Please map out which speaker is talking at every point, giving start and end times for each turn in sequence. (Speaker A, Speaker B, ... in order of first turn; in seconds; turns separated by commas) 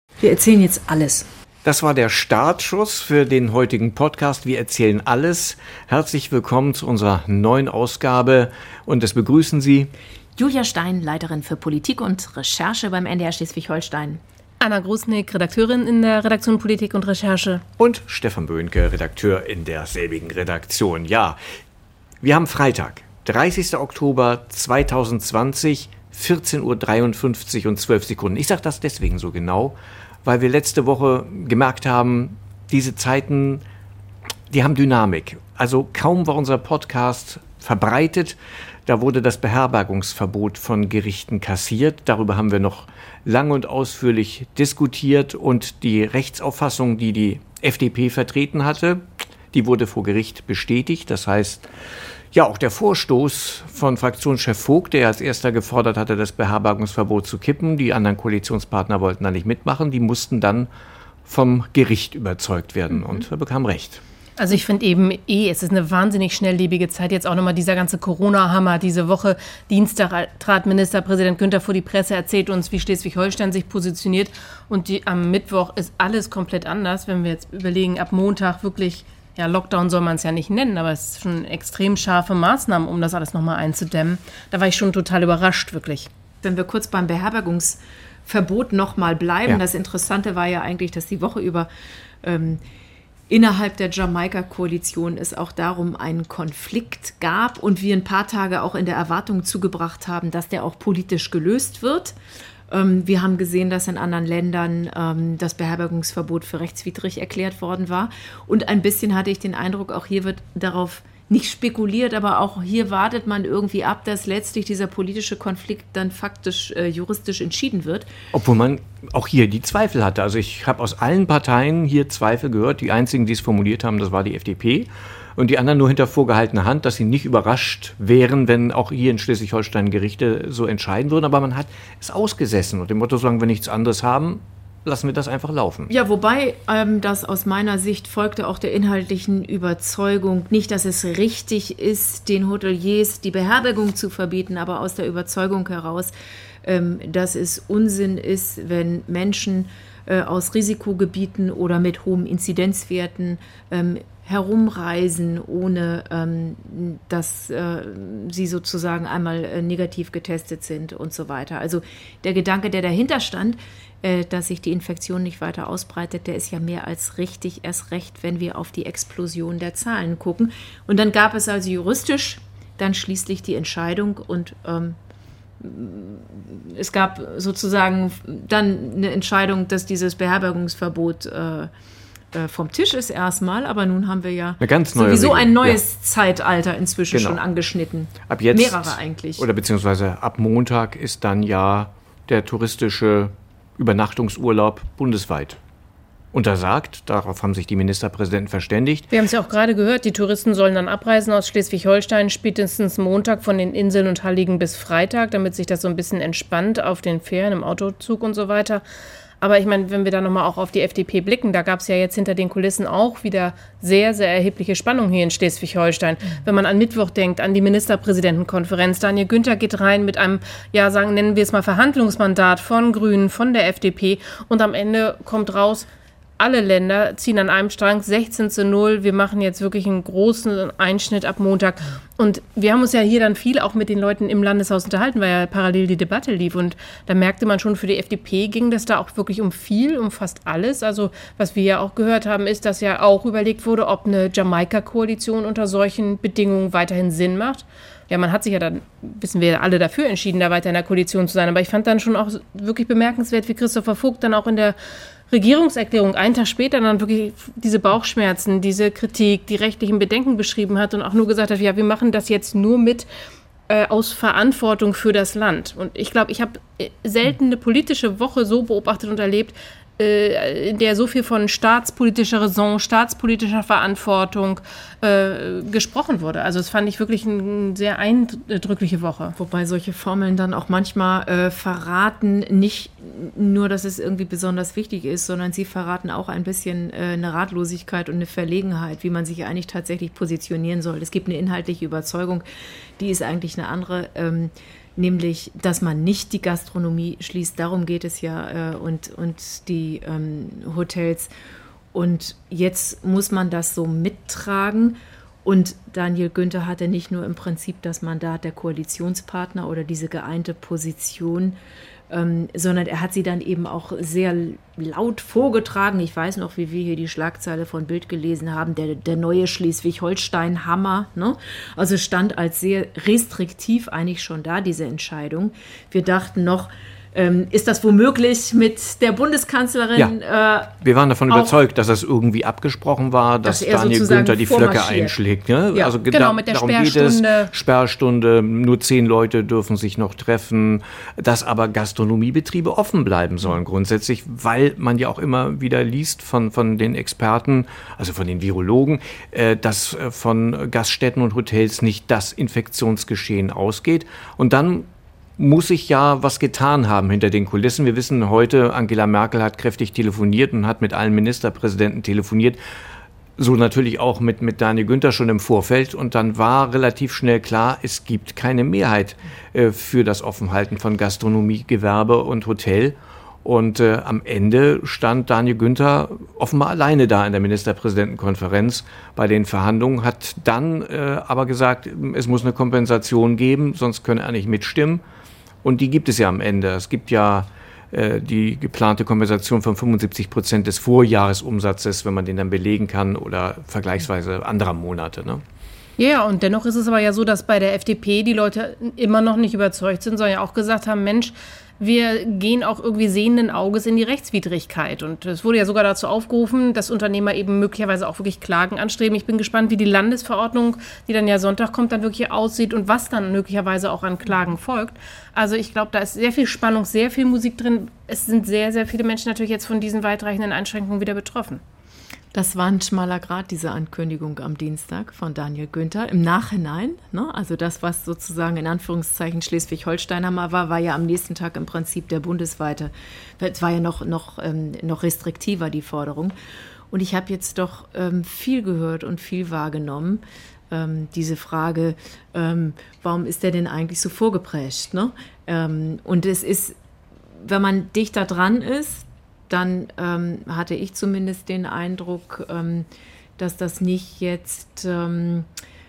Speaker A: 0.2-1.3, Speaker B: 1.6-9.9, Speaker A: 10.4-14.2, Speaker C: 14.6-17.6, Speaker B: 17.8-21.4, Speaker B: 22.2-33.6, Speaker B: 34.5-51.7, Speaker B: 52.3-60.7, Speaker B: 61.3-64.0, Speaker C: 64.4-86.1, Speaker A: 86.4-91.7, Speaker A: 92.2-92.6, Speaker A: 93.3-102.2, Speaker A: 102.7-118.1, Speaker B: 118.3-135.9, Speaker A: 135.9-175.0, Speaker A: 175.6-181.7, Speaker A: 182.3-189.5, Speaker B: 184.6-185.8, Speaker B: 187.1-187.4, Speaker B: 188.3-195.6, Speaker B: 196.3-199.1, Speaker C: 199.1-208.8, Speaker C: 209.4-225.9, Speaker C: 226.4-254.8, Speaker C: 255.3-263.1, Speaker C: 263.7-279.4, Speaker A: 279.4-292.4, Speaker A: 293.0-301.3, Speaker A: 301.9-311.6, Speaker A: 312.1-330.7, Speaker B: 330.8-354.9, Speaker A: 333.4-335.2, Speaker C: 336.1-337.5, Speaker B: 355.4-362.6, Speaker B: 363.4-385.0, Speaker B: 385.6-395.4, Speaker C: 396.0-421.6, Speaker A: 422.3-436.4, Speaker A: 436.9-446.8, Speaker A: 447.4-452.9, Speaker A: 453.4-455.5